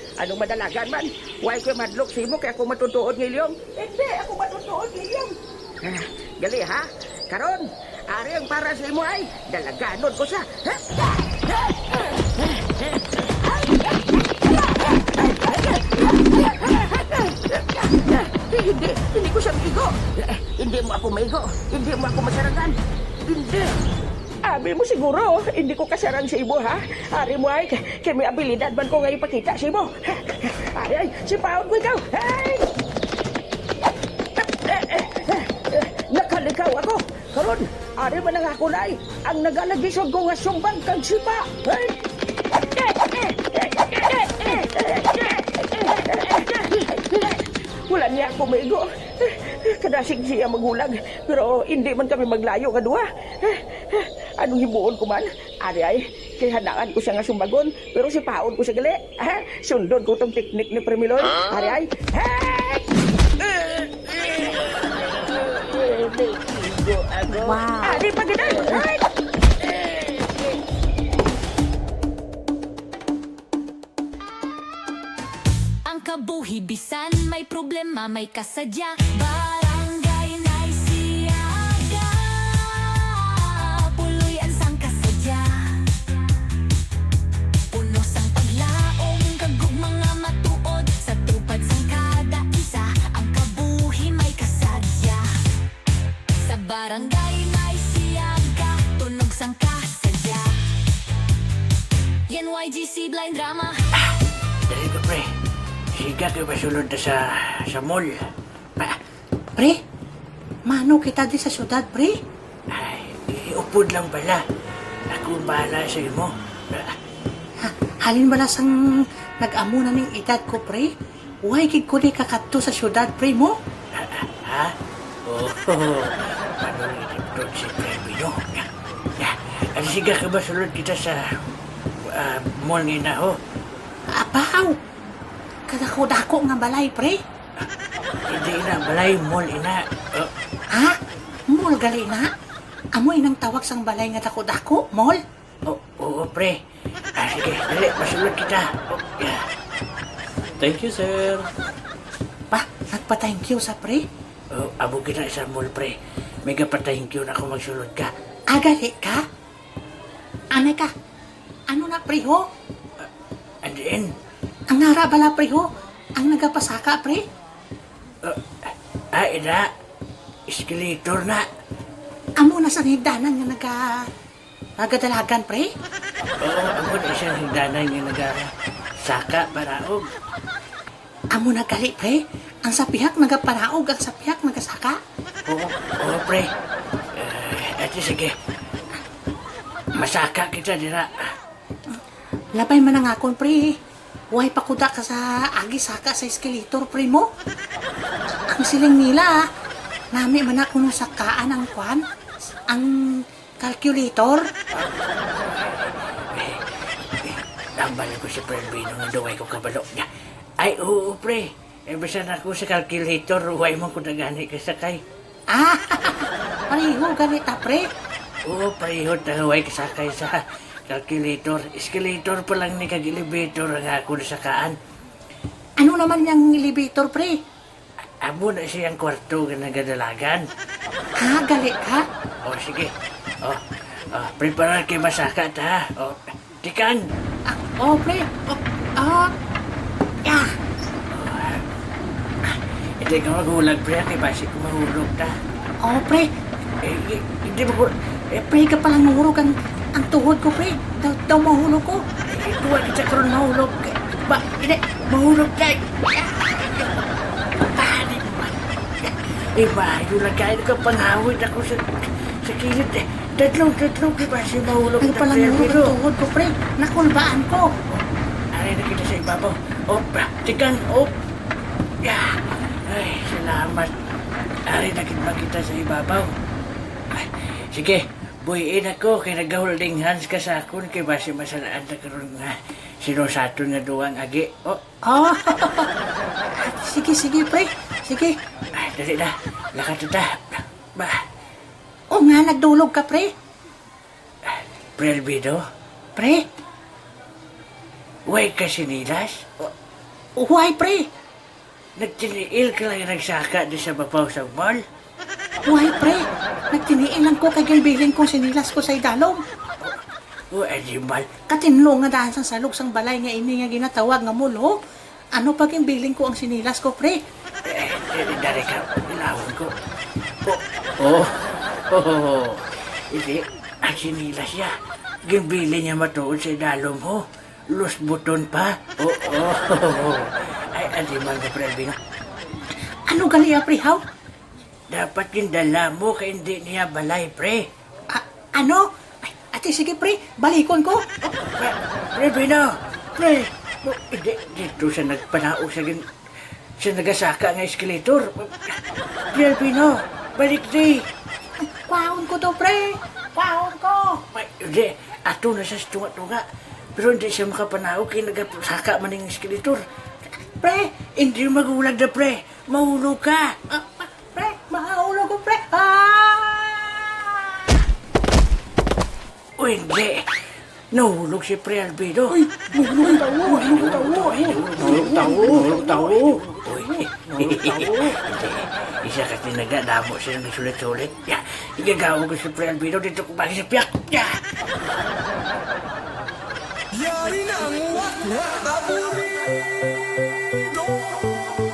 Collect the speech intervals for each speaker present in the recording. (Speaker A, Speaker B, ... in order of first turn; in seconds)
Speaker A: 0.2-22.8, 23.3-23.7, 24.4-32.6, 34.4-41.9, 42.6-62.9, 63.4-69.0, 69.9-70.2
Speaker B: 75.8-85.7, 87.7-95.2, 96.4-100.5, 102.3-103.8
Speaker C: 104.7-105.3, 106.0-108.3, 112.7-114.4, 115.1-116.9, 123.9-124.7, 125.3-131.4, 132.1-133.4, 138.3-140.3, 145.7-146.6, 147.2-149.4, 150.6-151.5, 154.5-155.9, 156.4-158.1, 163.6-164.1, 168.2-169.7, 170.5-171.4, 176.4-178.5, 179.0-180.0, 185.5-186.5, 187.1-188.3, 189.9-191.2, 205.4-210.1, 210.6-215.0, 218.4-224.8, 228.2-230.4, 232.4-232.9, 234.1-237.1, 241.1-241.6, 242.4-245.3, 246.8-247.9, 252.2-256.9, 257.6-265.9, 268.5-271.1, 272.0-273.9, 274.7-276.3, 277.1-284.8, 288.8-291.2, 294.5-295.6, 298.3-299.7, 302.0-304.8, 310.5-311.3, 317.6-319.7, 320.4-324.7, 325.3-331.9, 334.9-337.7, 341.2-346.0, 346.8-348.8, 349.3-351.0, 354.3-356.4, 356.9-359.8, 360.6-363.8, 369.6-370.2, 370.9-372.4, 373.0-384.9
Speaker D: 110.7-112.2, 117.6-120.9, 121.4-123.5, 134.2-134.8, 135.7-137.2, 140.7-141.0, 141.5-142.3, 142.9-145.2, 152.5-154.1, 158.5-159.2, 160.5-160.9, 161.7-162.4, 164.7-167.2, 172.4-174.1, 174.8-175.7, 181.3-185.0, 192.5-193.8, 194.3-197.3, 198.5-199.4, 200.1-202.0, 202.7-204.5, 215.5-217.9, 225.8-227.4, 231.2-232.1, 237.5-239.3, 240.2-240.5, 245.8-246.3, 248.4-252.0, 265.0-267.7, 285.0-285.9, 286.5-288.4, 292.1-293.3, 296.1-296.4, 300.4-301.1, 305.6-309.4, 311.5-314.8, 315.4-317.2, 333.1-334.0, 338.1-341.0, 351.7-354.2, 364.3-367.4, 372.3-378.1
Speaker E: 386.9-389.6, 390.6-391.2